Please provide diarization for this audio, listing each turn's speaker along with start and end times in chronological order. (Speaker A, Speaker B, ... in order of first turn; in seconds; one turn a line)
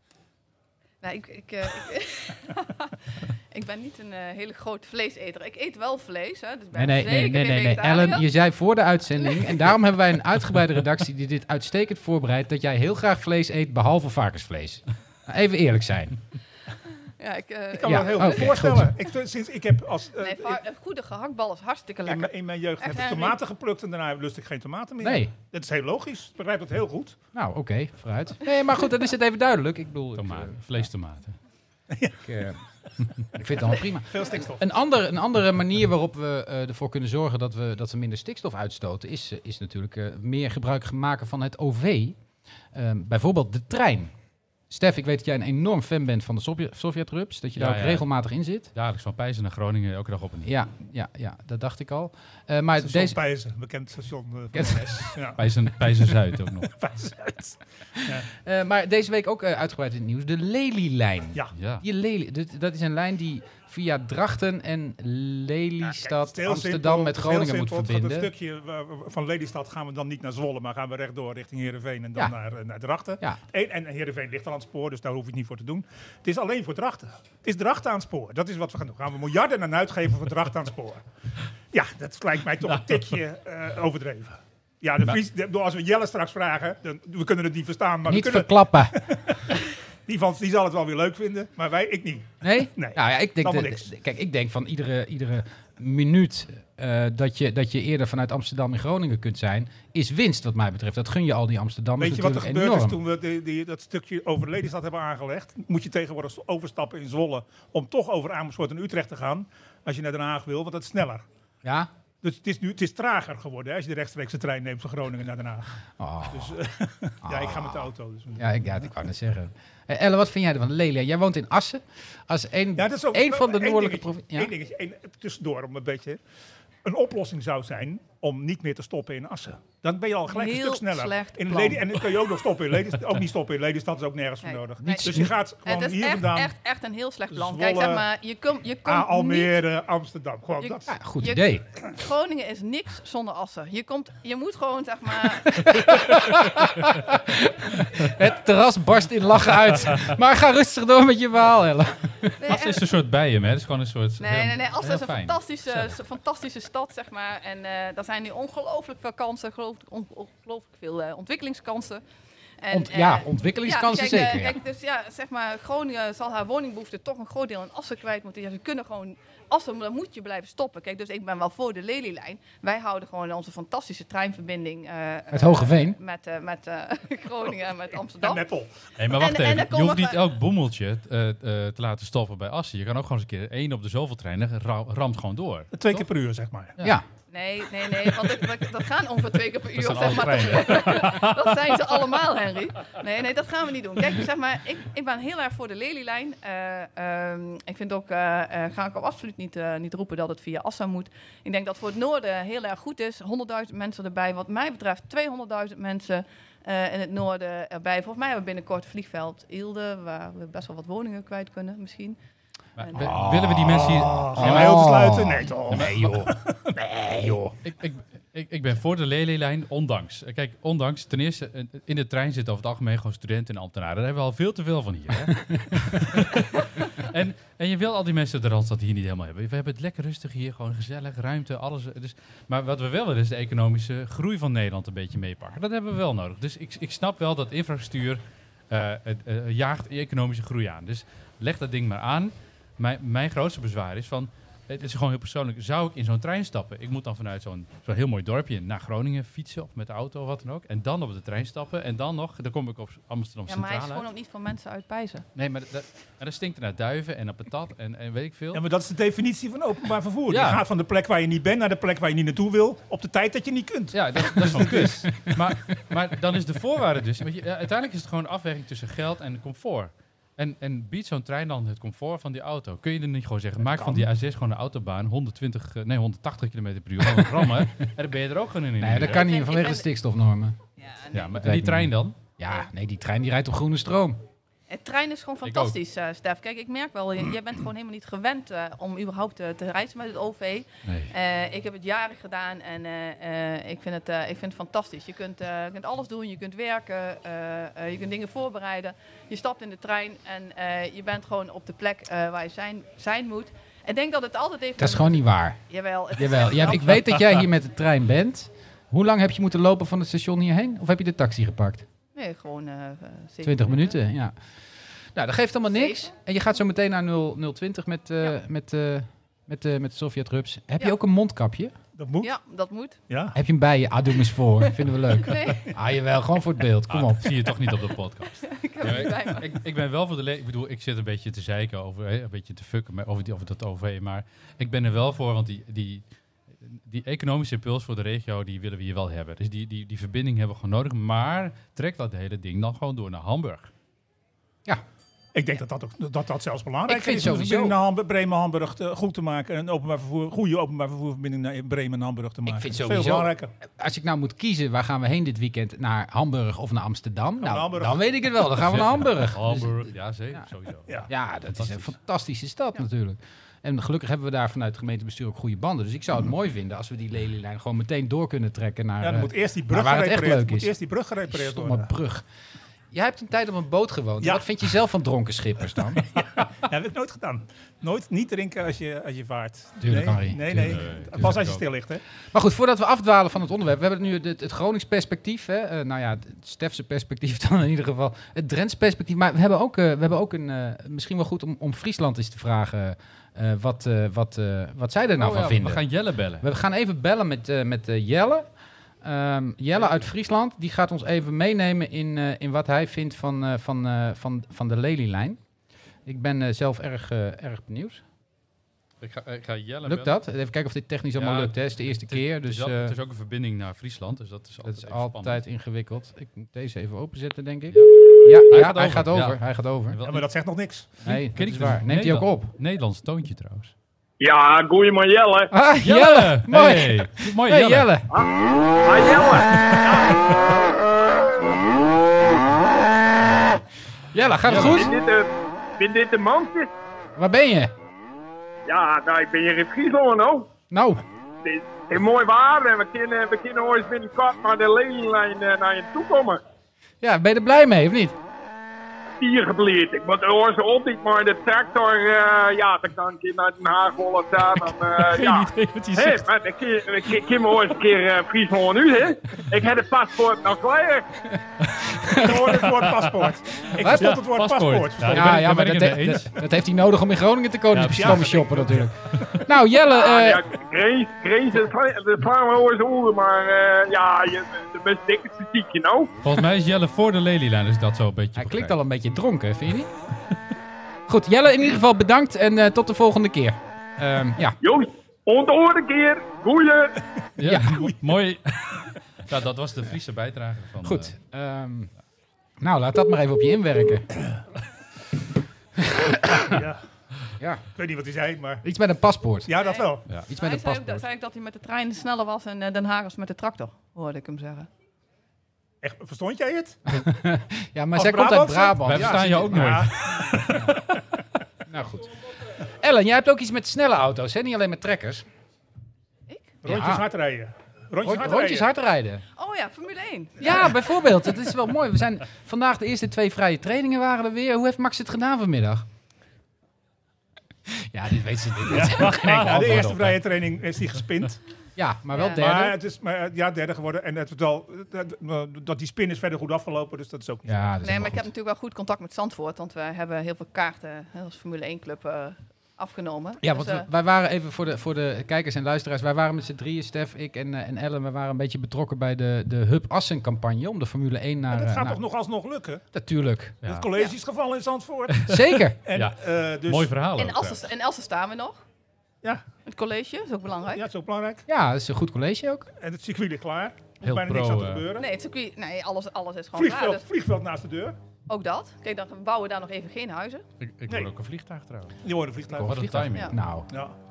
Speaker A: 1.0-8.3
Speaker B: 6.7-16.2
Speaker A: 9.3-9.6
Speaker A: 17.1-18.6
Speaker C: 17.8-20.6
Speaker B: 17.8-18.9
Speaker A: 20.2-23.4
Speaker C: 22.1-27.2
Speaker B: 25.0-25.3
Speaker B: 27.3-30.9
Speaker D: 30.2-31.4
Speaker C: 31.9-32.3
Speaker B: 32.2-32.6
Speaker B: 33.2-42.2
Speaker C: 34.0-34.7
Speaker B: 42.7-44.1
Speaker B: 44.7-48.7
Speaker D: 47.6-48.1
Speaker D: 48.7-50.5
Speaker B: 50.5-53.2
Speaker C: 52.8-55.4
Speaker B: 54.5-55.3
Speaker D: 55.4-56.7
Speaker C: 56.7-58.3
Speaker B: 58.0-68.3
Speaker D: 61.5-61.9
Speaker C: 65.9-81.0
Speaker C: 81.7-93.9
Speaker B: 88.0-89.0
Speaker B: 92.4-103.0
Speaker C: 102.0-111.2
Speaker B: 111.6-111.9
Speaker C: 112.2-115.7
Speaker B: 116.0-116.6
Speaker C: 116.3-118.5
Speaker B: 117.2-124.5
Speaker C: 122.8-126.2
Speaker C: 126.8-136.5
Speaker A: 130.3-132.0
Speaker A: 134.4-139.6
Speaker B: 134.8-135.3
Speaker C: 137.3-138.1
Speaker C: 138.9-140.9
Speaker A: 140.6-145.8
Speaker B: 140.9-141.6
Speaker B: 145.5-152.4
Speaker A: 152.4-152.8
Speaker D: 152.5-155.9
Speaker A: 154.2-162.0
Speaker A: 162.6-178.4
Speaker B: 162.7-164.6
Speaker B: 175.3-176.0
Speaker C: 178.2-178.8
Speaker D: 179.0-186.1
Speaker A: 179.1-180.2
Speaker C: 185.7-186.8
Speaker A: 187.3-212.2
Speaker D: 189.8-191.5
Speaker D: 212.8-214.8
Speaker A: 212.8-213.1
Speaker B: 213.0-217.5
Speaker C: 213.1-217.5
Speaker D: 215.7-216.1
Speaker D: 217.6-254.1
Speaker B: 225.3-226.0
Speaker A: 253.5-255.3
Speaker D: 255.4-258.6
Speaker C: 258.5-265.1
Speaker D: 260.3-260.6
Speaker D: 263.9-279.2
Speaker B: 264.4-265.4
Speaker C: 273.6-274.1
Speaker B: 277.4-277.6
Speaker B: 278.8-280.6
Speaker A: 279.0-279.9
Speaker A: 280.8-281.4
Speaker D: 281.1-282.2
Speaker B: 281.4-284.2
Speaker A: 284.7-307.1
Speaker D: 285.4-285.8
Speaker D: 290.9-291.1
Speaker B: 304.8-305.6
Speaker B: 306.1-311.9
Speaker A: 312.1-314.0
Speaker B: 313.4-314.3
Speaker B: 315.1-321.8
Speaker A: 315.7-316.1
Speaker C: 321.9-322.3
Speaker A: 322.2-323.0
Speaker C: 323.1-323.4
Speaker B: 323.3-327.6
Speaker A: 325.1-325.8
Speaker D: 326.9-336.0
Speaker A: 328.4-329.5
Speaker D: 336.6-343.7
Speaker C: 345.3-353.5
Speaker B: 346.9-347.8
Speaker B: 352.4-360.4
Speaker C: 357.4-358.1
Speaker D: 358.6-361.9
Speaker B: 361.1-372.2
Speaker C: 369.0-371.9
Speaker B: 372.9-376.1
Speaker C: 374.2-374.4
Speaker C: 375.9-382.0
Speaker B: 379.8-381.3
Speaker D: 380.5-381.6
Speaker B: 382.3-395.9
Speaker D: 395.2-396.5
Speaker B: 396.4-398.5
Speaker B: 399.0-405.4
Speaker D: 399.8-400.1
Speaker B: 406.1-408.0
Speaker D: 409.0-410.1
Speaker B: 409.8-412.9
Speaker D: 411.1-415.4
Speaker B: 414.6-420.0
Speaker D: 417.7-420.3
Speaker C: 420.1-420.9
Speaker D: 421.0-423.7
Speaker B: 421.1-422.5
Speaker E: 424.2-425.5
Speaker B: 425.5-428.1
Speaker D: 425.8-427.9
Speaker E: 428.8-430.2
Speaker B: 434.1-434.9
Speaker D: 434.4-434.8
Speaker E: 434.5-436.7
Speaker B: 437.1-437.7
Speaker E: 438.7-440.5
Speaker B: 440.7-441.0
Speaker E: 441.4-446.4
Speaker B: 447.0-448.1
Speaker E: 449.2-461.1
Speaker D: 454.9-456.2
Speaker D: 461.6-461.9
Speaker B: 461.9-462.8
Speaker C: 462.1-465.3
Speaker B: 463.8-464.2
Speaker D: 463.9-466.4
Speaker B: 465.1-470.4
Speaker D: 467.7-468.3
Speaker C: 467.9-469.4
Speaker E: 469.9-476.1
Speaker D: 476.2-478.8
Speaker B: 478.4-479.9
Speaker B: 481.1-484.6
Speaker E: 484.6-487.0
Speaker D: 487.4-491.1
Speaker B: 487.4-487.8
Speaker B: 490.8-491.9
Speaker B: 492.6-494.1
Speaker B: 495.8-496.6
Speaker C: 496.4-496.8
Speaker C: 497.8-498.6
Speaker B: 498.6-499.5
Speaker C: 499.4-500.1
Speaker A: 499.6-504.7
Speaker B: 500.1-501.1
Speaker C: 505.8-506.8
Speaker B: 506.9-510.9
Speaker C: 507.9-511.0
Speaker D: 508.8-510.2
Speaker B: 511.7-515.3
Speaker C: 516.6-518.7
Speaker B: 516.6-517.1
Speaker B: 518.0-519.2
Speaker A: 519.4-520.8
Speaker B: 520.4-525.9
Speaker B: 527.7-530.2
Speaker C: 528.6-531.4
Speaker D: 529.3-530.1
Speaker B: 531.8-532.8
Speaker A: 532.1-532.4
Speaker C: 532.4-537.7
Speaker B: 537.5-538.3
Speaker A: 537.8-543.9
Speaker B: 543.4-552.0
Speaker C: 551.5-552.8
Speaker B: 552.9-553.6
Speaker D: 553.6-553.9
Speaker C: 553.6-556.9
Speaker B: 555.3-555.8
Speaker D: 555.9-557.6
Speaker A: 557.2-558.6
Speaker A: 559.6-560.9
Speaker C: 560.8-561.4
Speaker B: 561.5-562.7
Speaker C: 562.8-565.1
Speaker D: 564.0-564.9
Speaker A: 565.0-567.1
Speaker C: 566.5-568.0
Speaker A: 568.3-570.4
Speaker D: 570.6-573.3
Speaker C: 572.0-572.8
Speaker B: 572.5-573.7
Speaker C: 573.7-573.9